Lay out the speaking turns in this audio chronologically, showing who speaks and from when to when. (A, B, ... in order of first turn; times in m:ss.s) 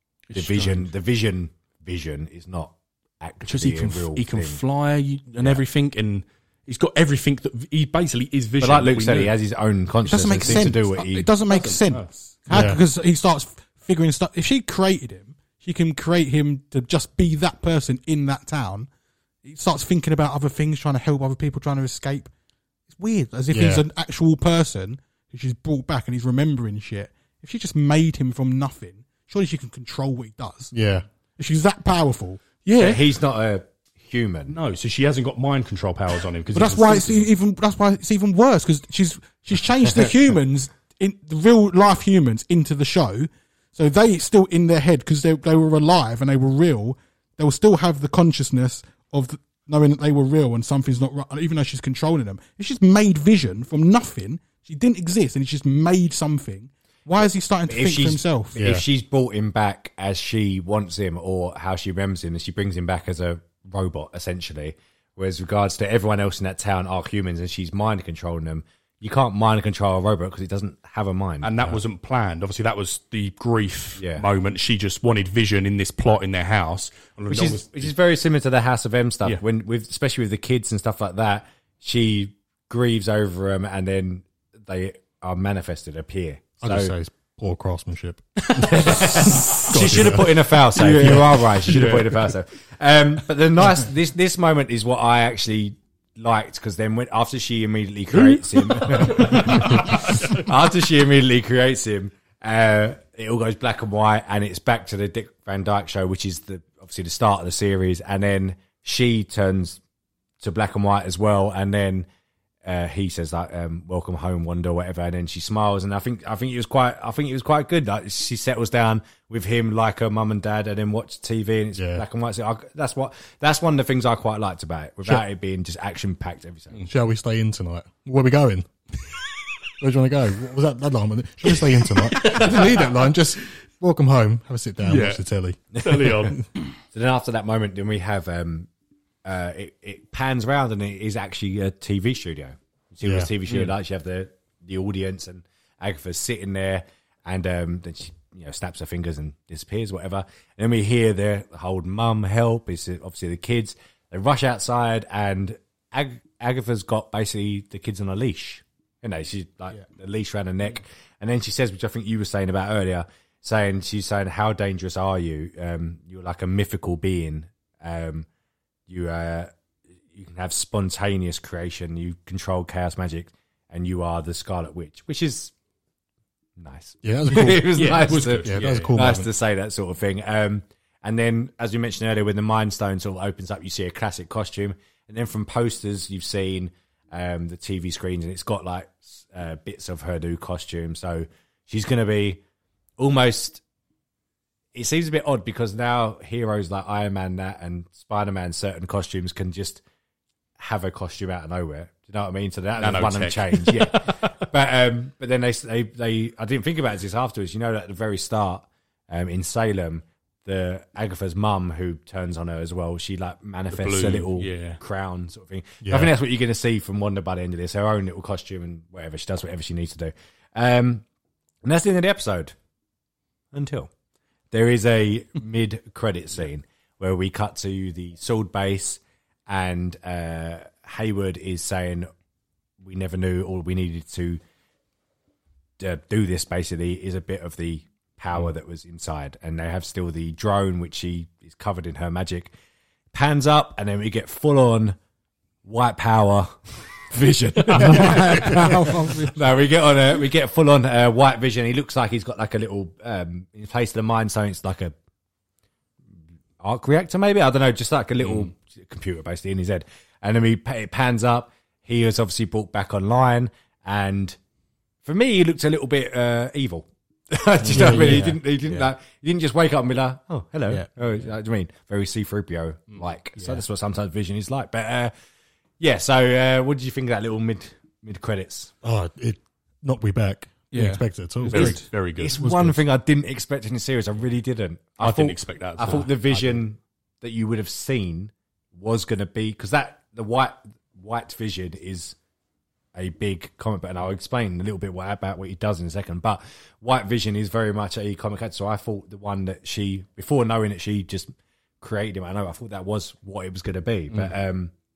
0:00.3-0:00.9 A
0:00.3-0:04.6 B
0:03.4-0:09.3 A
0:08.6-0:11.3 B
0:10.1-0:18.9 C
0:11.5-0:12.1 A
0:12.5-0:12.8 D
0:19.4-0:22.3 C
0:22.9-0:30.7 C
0:23.5-0:23.8 D
0:30.7-0:31.0 D
0:31.4-0:32.4 C
0:32.6-0:33.0 A
0:32.8-0:34.6 B
0:34.5-0:37.3 A
0:36.5-0:58.6 C
0:57.2-1:11.5 B
0:58.6-0:58.8 D
1:11.4-1:17.9 A
1:14.0-1:14.2 B
1:17.3-1:26.9 B
1:26.6-1:31.4 D
1:28.5-1:32.3 A
1:28.6-1:49.8 B
1:38.1-1:40.5 A
1:50.4-1:52.1 B
1:52.6-2:06.9 B
2:01.8-2:02.0 D
2:06.9-2:08.7 D
2:09.8-2:16.3 D
2:11.9-2:12.9 A
2:14.8-2:15.2 A
2:15.8-2:16.4 A
2:15.8-2:16.1 B
2:16.9-2:18.7 B
2:19.2-2:48.3 B
2:23.0-2:23.3 D
2:48.9-2:49.5 B
2:50.1-2:55.5 B
2:56.6-3:12.4 B
2:57.0-2:59.3 D
2:57.7-2:59.0 A
3:13.0-3:13.6 B
3:14.8-3:19.8 B
3:20.6-3:41.0 B
3:22.8-3:24.4 A
3:33.7-3:34.8 A
3:35.8-3:36.1 D
3:41.6-3:42.6 B
3:43.5-3:43.9 B
3:44.5-3:52.1 B
3:52.8-3:54.4 B
3:55.8-4:02.5 B
4:03.1-4:05.0 B
4:05.6-4:14.9 B
4:07.7-4:08.3 A
4:07.7-4:09.4 C
4:16.6-4:24.4 B
4:18.2-4:18.5 A
4:25.0-4:35.1 B
4:27.7-4:28.4 D
4:35.8-4:38.7 B
4:38.8-4:41.8 D
4:40.7-4:41.9 C
4:41.5-4:42.5 A
4:42.2-4:52.2 B
4:45.0-4:46.4 A
4:53.0-5:04.7 B